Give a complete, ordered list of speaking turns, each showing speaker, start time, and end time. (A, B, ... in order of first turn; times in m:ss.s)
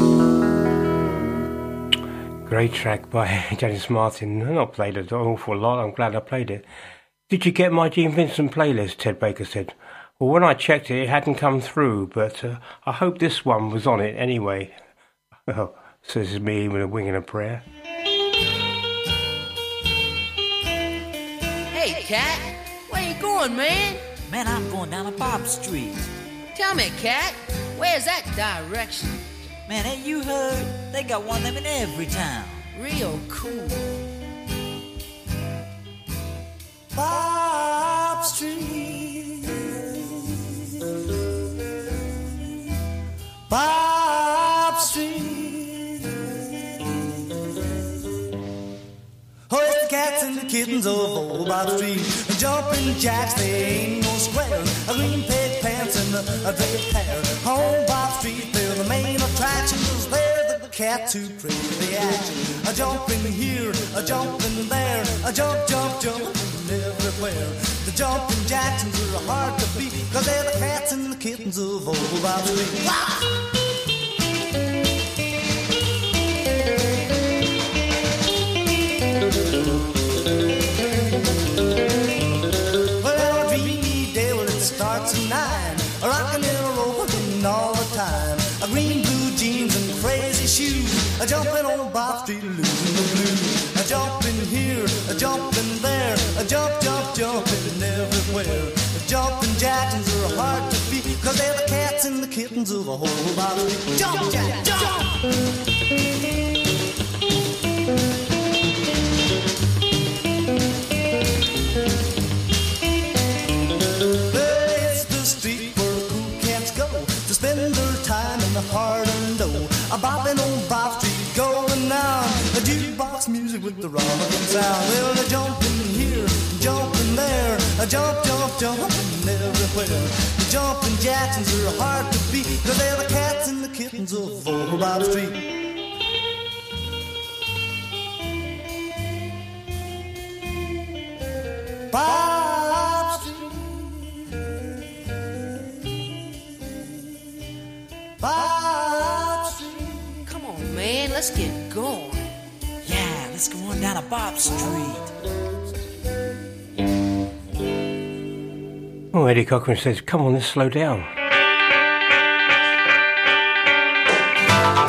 0:02.4-0:06.6 A
0:07.3-0:14.8 A
0:15.5-0:17.6 A
0:21.7-0:24.0 B
0:24.3-0:25.9 C
0:26.5-0:29.2 B
0:29.7-0:32.6 C
0:32.7-0:33.8 B
0:36.9-0:40.6 D
0:43.5-0:46.4 D
0:49.5-1:13.1 D
1:23.0-1:45.1 D
1:54.3-2:15.4 D
2:21.9-2:24.3 D
2:28.2-2:30.1 D
2:30.2-2:32.2 B
2:32.9-2:34.0 C
2:34.8-2:35.0 C
2:39.1-2:41.1 A